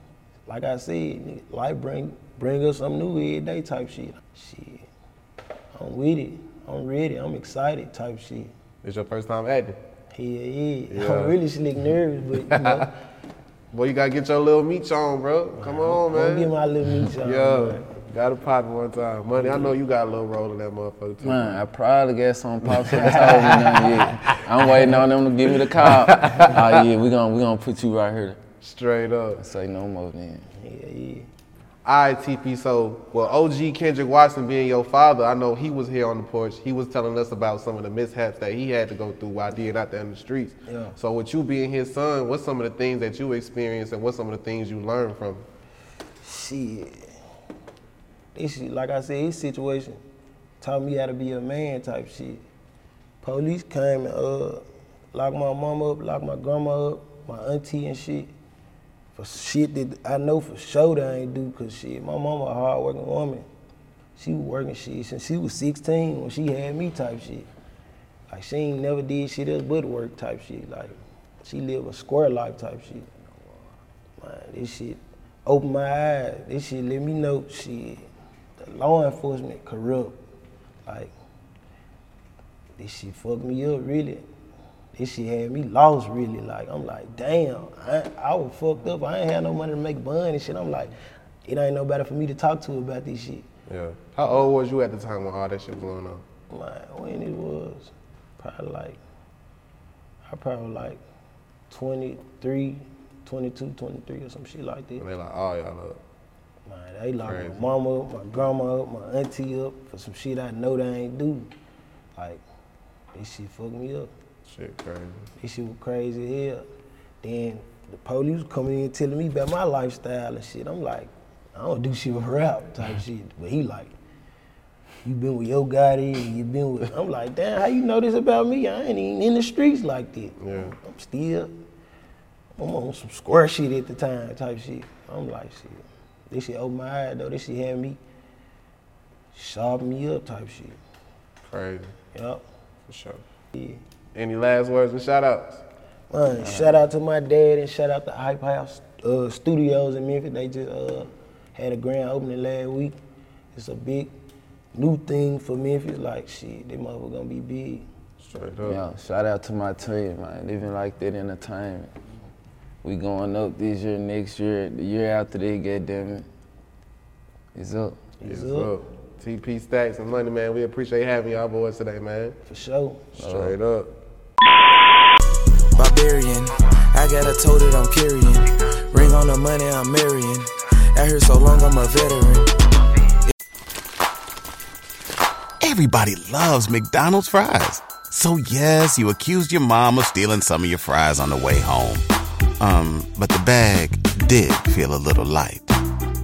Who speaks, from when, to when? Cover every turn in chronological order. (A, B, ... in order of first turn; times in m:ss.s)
0:00.5-0:04.9 A
0:05.7-0:08.5 A
0:08.8-0:09.8 B
0:10.1-0:12.9 A
0:10.9-0:11.4 B
0:12.4-0:12.9 B
0:13.7-0:16.5 B
0:15.6-0:17.8 A
0:17.2-0:21.6 B
0:21.2-0:28.4 C
0:22.8-0:24.1 A
0:25.8-0:26.8 B
0:28.6-0:29.4 B
0:29.4-0:30.5 C
0:30.6-0:31.3 A
0:31.8-0:45.4 B
0:40.7-0:41.0 A
0:46.2-0:47.1 A
0:48.3-0:50.0 A
0:50.6-0:52.4 A
0:53.2-0:58.3 A
0:59.1-1:03.5 A
1:04.2-1:07.5 A
1:08.3-1:13.1 A
1:14.2-1:20.2 A
1:20.8-1:21.1 A
1:22.8-1:24.2 A
1:24.9-1:30.9 A
1:31.4-1:33.5 A
1:33.7-1:36.2 B
1:36.5-1:39.0 A
1:40.3-1:41.0 A
1:41.7-1:45.0 A
1:45.0-1:46.0 B
1:46.6-1:51.5 A
1:47.2-1:47.7 B
1:52.2-1:52.4 A
1:53.1-1:54.1 A
1:54.4-1:55.3 B
1:55.4-1:56.6 A
1:57.2-2:03.9 A
2:05.0-2:11.5 A
2:10.4-2:10.7 B
2:12.6-2:18.0 A
2:19.3-2:20.8 A
2:21.4-2:22.0 B
2:22.1-2:22.4 A
2:22.9-2:23.2 B
2:23.5-2:23.8 A
2:24.1-2:25.6 B
2:26.1-2:33.0 A
2:26.4-2:26.8 C
2:33.5-2:34.1 A
2:34.7-2:37.9 A
2:38.2-2:38.8 B
2:38.6-2:41.9 C
2:42.8-2:46.3 C
2:47.5-2:48.0 C
2:48.2-2:48.7 A
2:48.2-2:52.4 B
2:52.4-2:53.1 A
2:53.2-2:53.9 B
2:53.2-2:53.6 C
2:55.7-3:02.5 D
3:05.6-3:12.0 E
3:12.6-3:15.6 E